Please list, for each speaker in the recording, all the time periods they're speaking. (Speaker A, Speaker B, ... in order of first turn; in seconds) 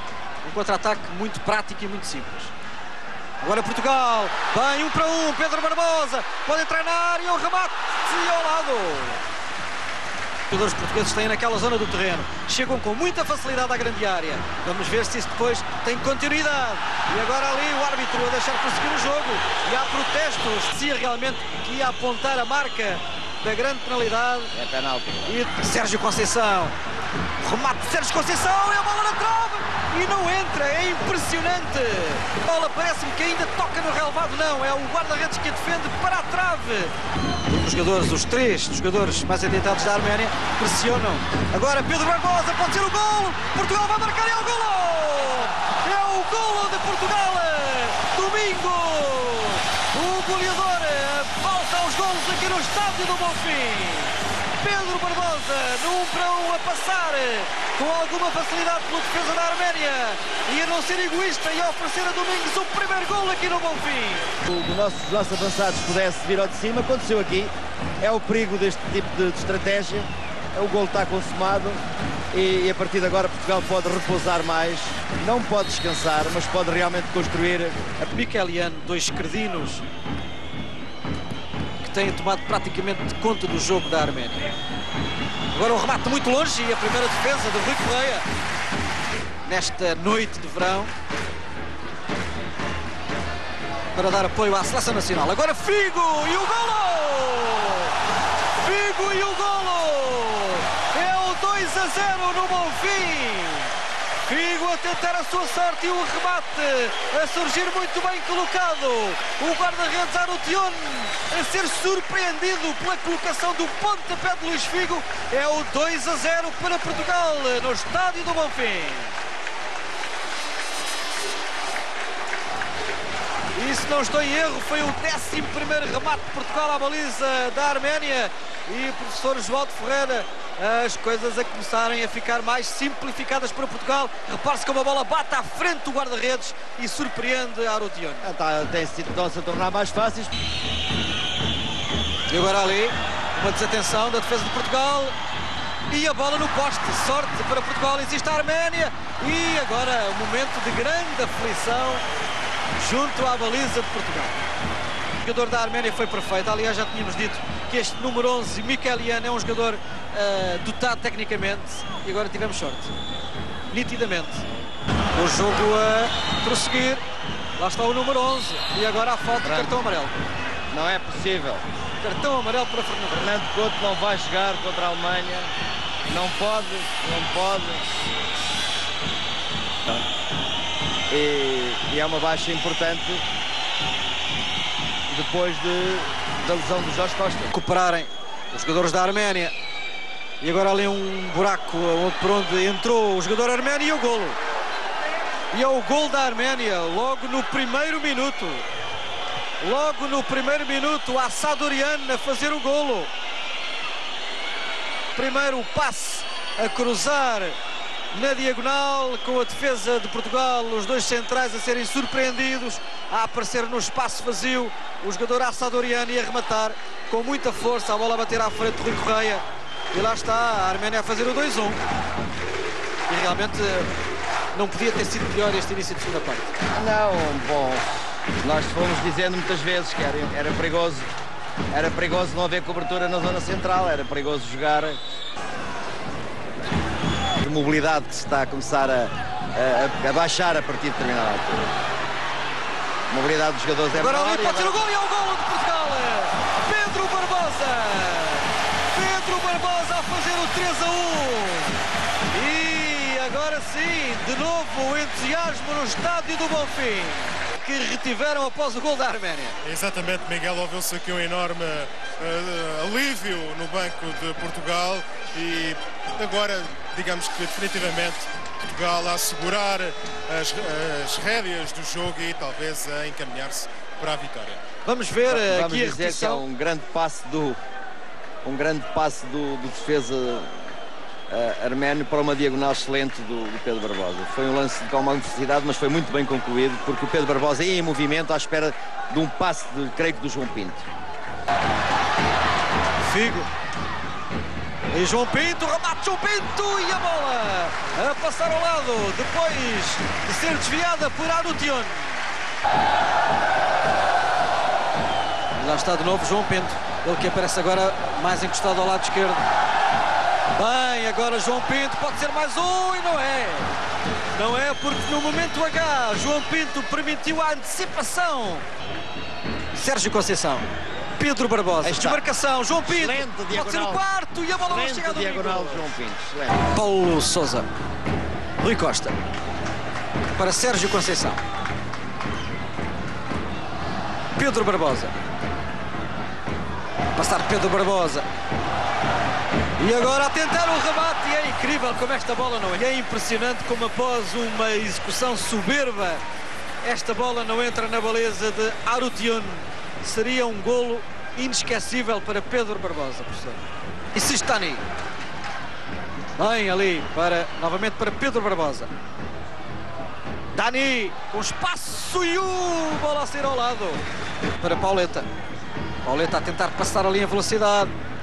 Speaker A: 0.4-2.5, 3.4-9.2, 10.5-24.5, 25.2-26.7, 27.4-36.9, 37.5-64.3, 78.0-79.8, 81.8-84.5, 85.5-88.2, 89.4-90.9, 93.9-97.9, 98.5-103.7, 104.2-119.1, 123.5-138.3, 142.3-145.1, 145.9-152.0, 152.8-154.4, 155.2-162.9, 163.7-164.4, 165.1-167.0, 167.6-170.2, 172.0-173.3, 187.5-189.5, 190.4-194.4, 195.5-198.6, 199.6-203.1, 205.1-207.6, 208.1-221.8, 223.1-223.9, 224.5-226.5, 243.9-251.7, 252.3-259.5, 274.8-276.4, 293.0-293.5, 294.9-302.2, 305.5-309.4, 310.5-313.7, 314.3-318.6, 319.7-325.9, 326.7-327.6, 328.6-329.1, 330.3-331.4, 334.4-335.2, 337.1-338.3, 339.8-346.2, 346.8-353.6, 354.1-354.8, 356.4-358.9, 360.5-364.0, 364.6-365.3, 366.0-367.9
Speaker B: 24.5-25.4, 64.4-77.8, 138.2-140.3, 169.3-169.8, 170.7-171.7, 173.1-175.5, 176.1-177.9, 181.1-183.2, 185.1-187.5, 226.7-227.8, 228.4-231.1, 231.7-235.0, 237.4-241.7, 243.1-244.8, 275.2-277.6, 278.4-280.7, 281.3-290.8, 321.8-322.2, 322.8-324.0, 324.6-326.7
Speaker C: 259.6-274.6